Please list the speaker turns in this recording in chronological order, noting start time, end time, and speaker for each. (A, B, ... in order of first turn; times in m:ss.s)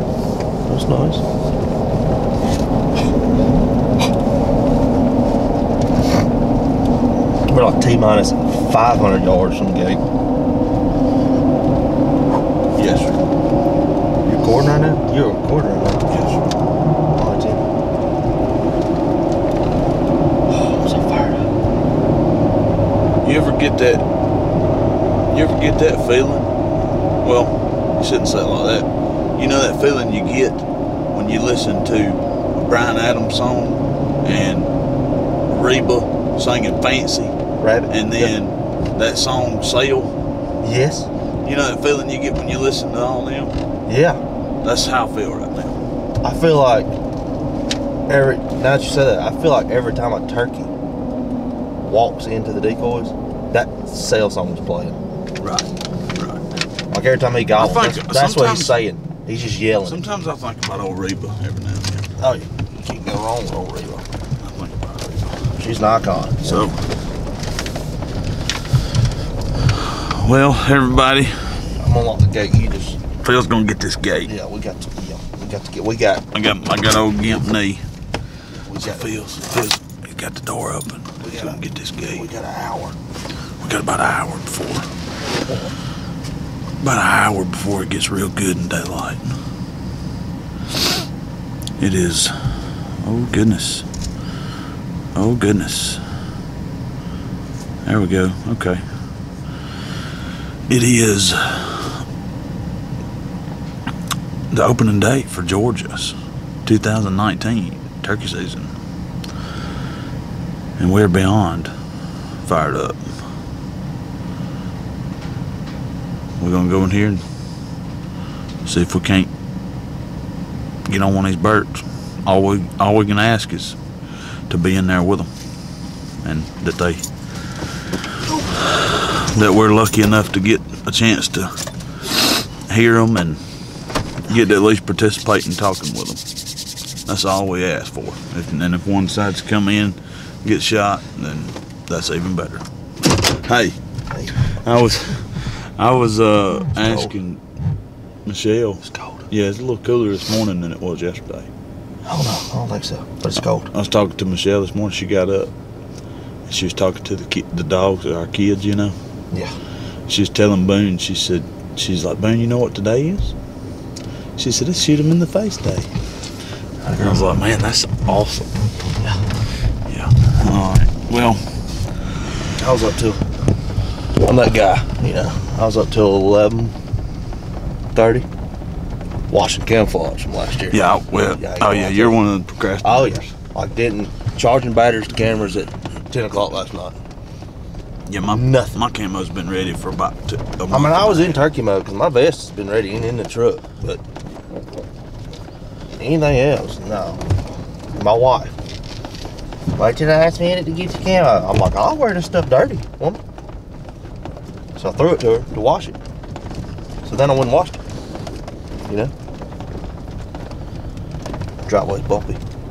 0:00.7-0:01.2 A
0:07.5-0:10.0 A
0:12.8-0:13.3 B
0:14.2-0:16.1 A
0:16.1-0:16.5 B
0:17.1-0:17.7 A
0:20.5-0:21.5 A
0:23.2-0:24.1 B
0:25.3-0:26.5 B
0:27.2-0:34.7 B
0:35.5-0:37.4 B
0:37.6-0:38.3 A
0:37.9-0:40.2 B
0:40.6-0:41.1 A
0:41.4-0:43.6 B
0:43.9-0:44.2 A
0:44.6-0:45.8 B
0:46.2-0:46.9 A
0:48.1-0:50.7 A
0:51.8-0:55.0 A
0:55.4-0:56.4 B
0:56.9-1:00.0 A
0:57.6-0:58.8 B
0:59.9-1:02.1 B
1:02.2-1:04.1 A
1:04.4-1:05.5 B
1:05.6-1:06.7 A
1:06.4-1:06.8 B
1:09.7-1:11.7 B
1:11.8-1:13.0 A
1:13.2-1:14.3 B
1:14.2-1:16.3 A
1:16.3-1:17.9 B
1:18.6-1:19.2 A
1:18.8-1:22.3 B
1:21.2-1:23.0 A
1:23.6-1:24.9 B
1:26.8-1:29.4 B
1:31.8-1:33.9 B
1:35.2-1:36.0 B
1:37.8-1:38.8 B
1:40.7-1:42.0 B
1:44.5-1:48.8 B
1:50.8-1:51.7 B
1:52.4-1:53.3 B
1:56.4-1:57.2 B
1:58.6-1:59.3 B
2:00.8-2:03.8 B
2:04.5-2:05.3 B
2:06.2-2:07.0 B
2:08.6-2:11.7 B
2:12.7-2:13.4 B
2:14.2-2:16.2 B
2:17.1-2:23.8 B
2:24.1-2:24.5 A
2:24.4-2:27.4 B
2:26.8-2:27.1 A
2:28.2-2:31.5 B
2:32.0-2:33.7 A
2:33.7-2:35.5 B
2:36.5-2:39.0 B
2:39.3-2:39.6 A
2:40.1-2:43.4 B
2:44.4-2:45.9 B
2:46.9-2:47.2 A
2:46.9-2:48.5 B
2:49.0-2:49.2 A
2:49.8-2:51.5 B
2:52.6-2:53.3 A
2:54.2-2:56.8 A
2:57.9-2:58.3 A
2:59.3-3:02.2 A
3:00.7-3:03.2 B
3:02.8-3:07.0 A
3:08.1-3:11.4 B
3:08.3-3:08.8 A
3:10.7-3:14.0 A
3:16.0-3:17.2 A
3:17.9-3:18.6 A
3:19.8-3:23.2 A
3:24.8-3:26.0 A
3:27.0-3:27.8 A
3:28.9-3:29.1 A
3:31.7-3:32.4 A